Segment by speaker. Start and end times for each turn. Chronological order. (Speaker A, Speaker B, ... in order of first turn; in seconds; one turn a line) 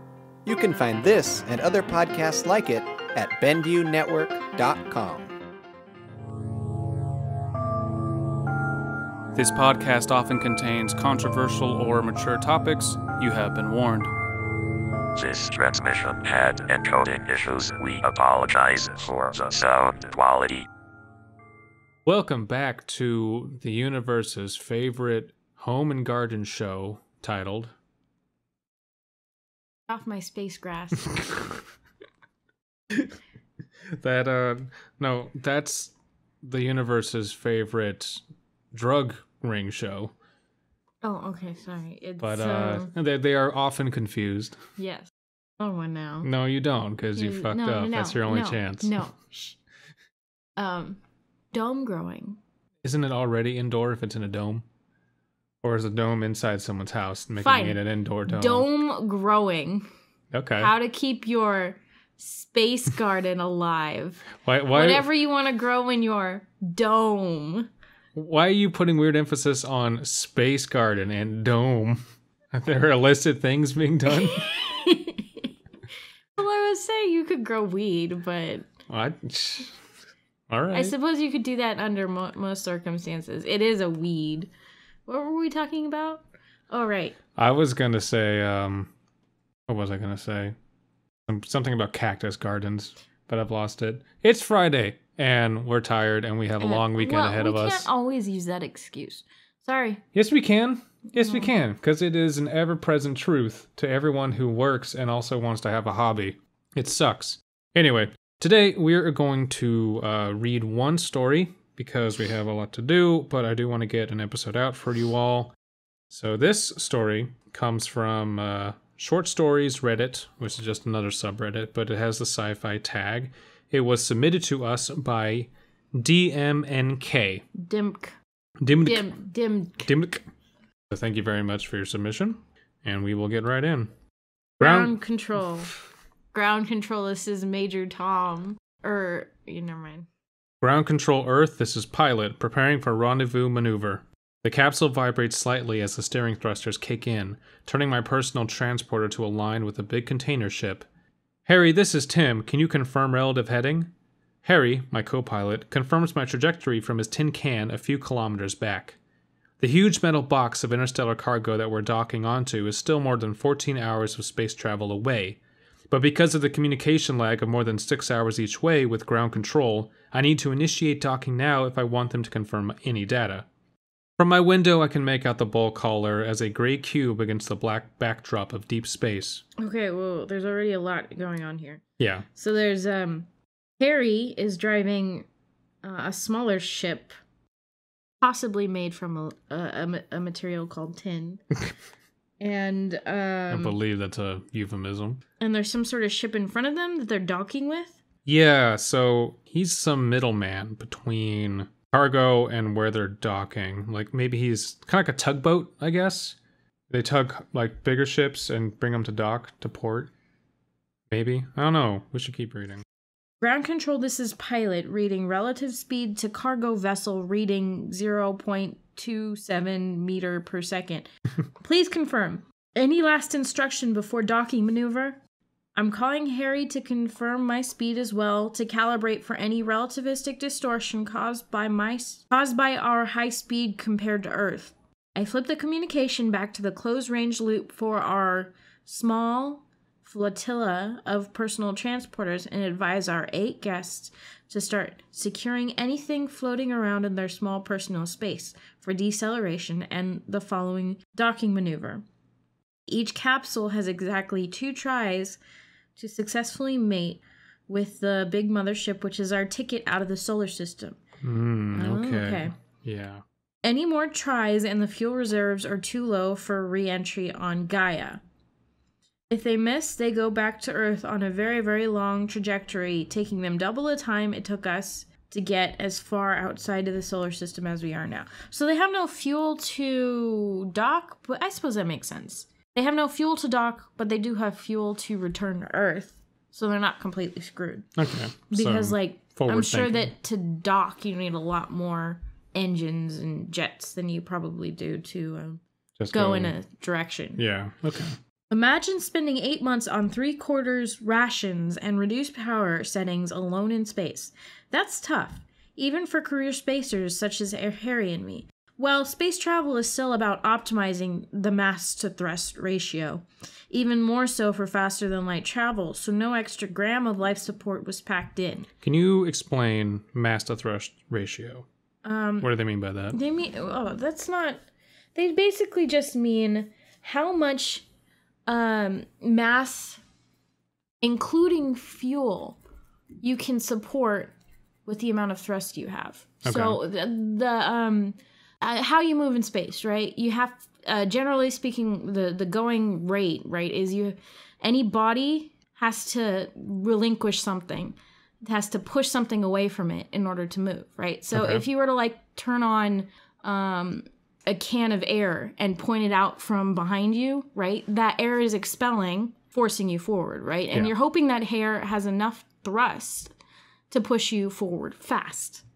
Speaker A: 0.5-5.3
Speaker B: 9.3-14.1
Speaker C: 15.1-20.7
Speaker B: 22.0-27.7
Speaker D: 29.9-31.1
Speaker B: 33.9-40.1
Speaker D: 41.0-42.9
Speaker B: 42.2-44.6
Speaker D: 44.8-46.3
Speaker B: 46.2-49.0
Speaker D: 47.1-49.6
Speaker D: 50.6-51.0
Speaker D: 51.5-52.4
Speaker B: 52.8-54.6
Speaker B: 55.6-58.7
Speaker D: 57.4-59.9
Speaker B: 60.3-60.7
Speaker D: 60.6-67.7
Speaker B: 64.4-65.1
Speaker B: 68.1-72.0
Speaker B: 72.5-74.5
Speaker D: 74.3-75.2
Speaker D: 76.4-78.7
Speaker B: 78.9-79.8
Speaker B: 80.5-80.9
Speaker D: 80.7-84.5
Speaker D: 85.0-87.2
Speaker B: 87.3-88.9
Speaker B: 89.7-90.5
Speaker B: 91.3-97.9
Speaker D: 96.6-100.0
Speaker B: 100.1-115.5
Speaker D: 101.2-101.5
Speaker B: 116.1-127.4
Speaker D: 127.5-128.2
Speaker B: 128.6-129.2
Speaker D: 128.8-129.8
Speaker B: 129.8-130.2
Speaker B: 130.9-133.9
Speaker B: 134.6-134.9
Speaker D: 134.6-135.7
Speaker D: 136.3-140.1
Speaker B: 140.6-150.8
Speaker B: 151.4-153.9
Speaker B: 154.4-159.0
Speaker B: 159.6-165.4
Speaker B: 165.9-173.4
Speaker B: 174.2-179.4
Speaker D: 179.6-183.3
Speaker B: 182.0-182.2
Speaker D: 183.8-185.2
Speaker D: 185.8-187.1
Speaker D: 188.2-191.4
Speaker D: 192.4-193.8
Speaker B: 193.5-195.2
Speaker D: 195.4-198.0
Speaker B: 198.2-206.4
Speaker B: 206.9-210.1
Speaker B: 211.1-212.8
Speaker D: 213.4-225.2
Speaker D: 225.8-252.0
Speaker D: 252.9-255.4
Speaker D: 255.9-261.0
Speaker B: 261.2-263.2
Speaker D: 261.7-262.5
Speaker D: 263.6-268.2
Speaker D: 269.3-287.9
Speaker B: 287.9-290.1
Speaker D: 288.5-297.4
Speaker B: 296.0-296.6
Speaker B: 297.4-298.2
Speaker D: 298.5-318.7
Speaker B: 318.8-321.6
Speaker D: 322.0-322.5
Speaker B: 322.4-323.2
Speaker D: 323.1-324.6
Speaker D: 325.1-327.8
Speaker D: 328.5-330.0
Speaker D: 331.0-332.6
Speaker D: 333.2-334.3
Speaker D: 334.9-363.3
Speaker B: 336.4-336.8
Speaker B: 351.3-351.6
Speaker D: 363.9-365.6